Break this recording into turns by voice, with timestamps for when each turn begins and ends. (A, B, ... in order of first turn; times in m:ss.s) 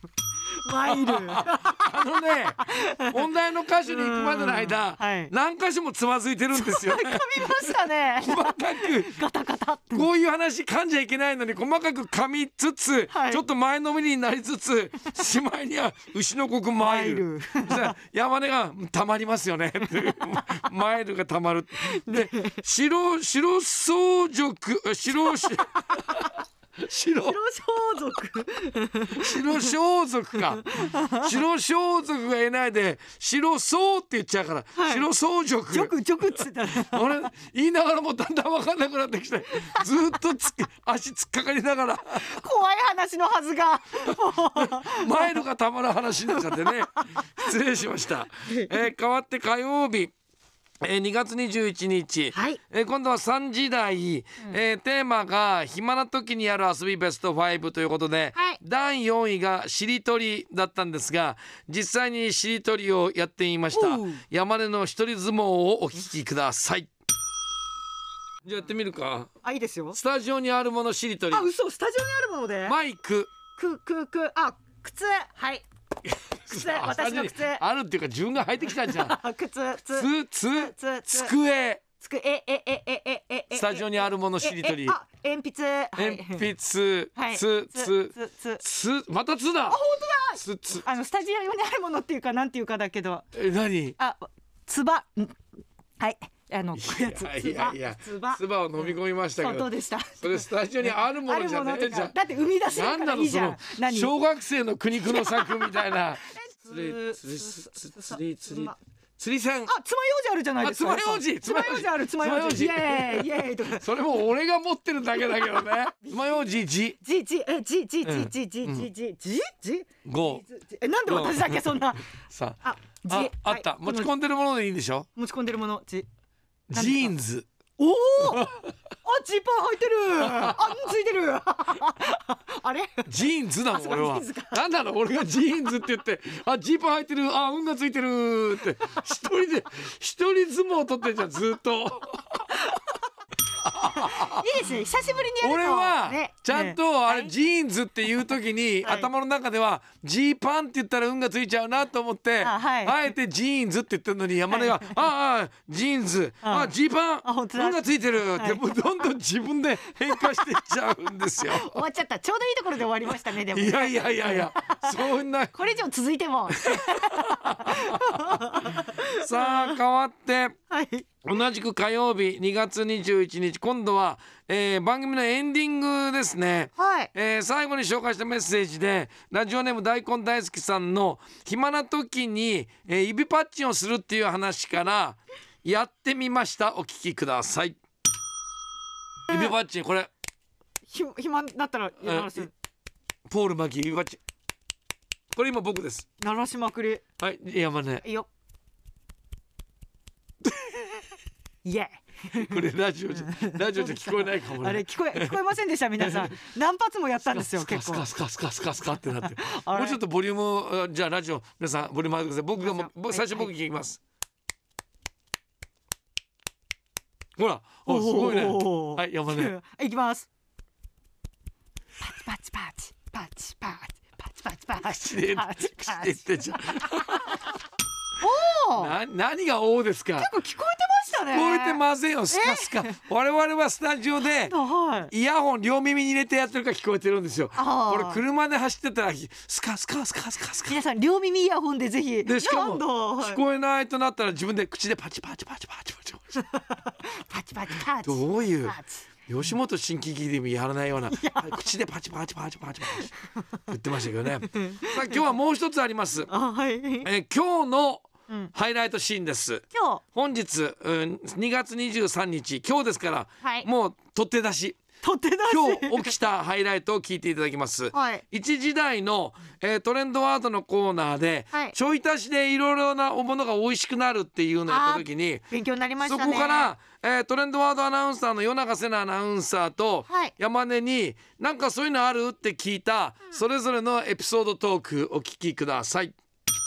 0:00.6-0:02.0 A
0:00.8-0:09.2 B
0:02.6-0:03.3 A
0:03.9-0:05.3 A
0:06.5-0:10.1 A
0:09.9-0:27.4 B
0:13.1-0:13.4 A
0:16.8-0:18.0 A
0:20.0-0:20.4 A
0:21.9-0:22.6 A
0:27.3-0:29.7 A
0:29.2-0:35.9 B
0:30.8-0:31.3 A
0:34.8-0:35.1 A
0:35.7-0:37.2 A
0:36.8-0:42.3 B
0:42.2-0:45.4 A
0:44.6-0:50.1 B
0:48.5-0:48.7 A
0:50.8-1:06.9 B
0:52.3-0:52.6 A
1:03.7-1:04.2 A
1:08.4-1:09.3 B
1:09.4-1:10.0 A
1:09.9-1:11.5 B
1:11.3-1:12.8 A
1:12.7-1:13.3 B
1:13.6-1:15.6 A
1:16.1-1:19.2 B
1:16.5-1:17.6 A
1:18.8-1:21.3 A
1:20.0-1:21.8 B
1:22.0-1:26.5 A
1:23.5-1:25.0 B
1:26.0-1:29.8 B
1:27.2-1:28.6 A
1:29.7-1:33.3 A
1:30.4-1:30.8 B
1:33.3-1:34.0 B
1:34.0-1:35.4 A
1:36.0-1:38.4 A
1:36.8-1:39.7 B
1:39.4-1:44.1 A
1:40.2-1:42.2 B
1:42.7-1:49.7 B
1:45.0-1:48.8 A
1:49.7-1:53.8 A
1:50.6-1:57.0 B
1:56.1-2:02.0 A
1:58.0-1:58.9 B
2:00.0-2:00.4 B
2:01.1-2:01.6 B
2:02.2-2:05.1 B
2:02.6-2:04.1 A
2:05.2-2:06.1 A
2:06.7-2:07.5 B
2:06.7-2:07.2 A
2:07.8-2:13.1 A
2:08.2-2:08.7 B
2:10.2-2:10.6 B
2:13.1-2:22.6 B
2:13.7-2:14.6 A
2:23.6-2:24.4 B
2:24.0-2:27.3 A
2:25.4-2:41.7 B
2:28.8-2:29.1 A
2:32.4-2:33.0 A
2:34.5-2:35.0 A
2:36.4-2:37.8 A
2:38.4-2:38.6 A
2:40.1-2:40.4 A
2:41.5-2:49.8 A
2:43.5-2:45.6 B
2:46.6-2:48.4 B
2:49.1-2:50.6 B
2:50.7-2:51.1 A
2:51.2-3:07.8 B
2:56.8-2:57.1 A
3:09.3-3:10.1 B
3:10.9-3:12.5 A
3:12.0-3:12.5 B
3:13.3-3:14.2 B
3:15.3-3:16.1 B
3:16.2-3:17.0 A
3:17.2-3:18.0 B
3:18.0-3:18.3 A
3:21.6-3:22.6 A
3:22.3-3:25.4 B
3:23.2-3:28.1 A
3:26.0-3:26.3 B
3:27.3-3:34.0 B
3:29.4-3:30.0 A
3:32.6-3:33.5 A
3:37.4-3:39.5 B
3:37.9-3:40.3 A
3:42.0-3:46.5 A
3:44.8-3:47.4 B
3:48.2-3:48.9 A
3:48.8-3:50.3 B
3:50.2-3:52.9 A
3:51.3-3:54.6 B
3:54.5-3:55.1 A
3:55.1-4:00.8 B
3:57.6-3:58.2 A
4:00.7-4:03.4 A
4:02.2-4:06.4 B
4:06.5-4:09.0 A
4:08.0-4:13.1 B
4:11.1-4:11.5 A
4:13.7-4:16.3 B
4:14.5-4:15.2 A
4:16.3-4:17.1 A
4:17.0-4:24.8 B
4:19.7-4:20.0 A
4:23.4-4:23.7 A
4:25.0-4:26.1 A
4:25.5-4:35.5 B
4:27.9-4:28.2 A
4:34.7-4:36.7 A
4:36.0-4:46.2 B
4:40.1-4:40.4 A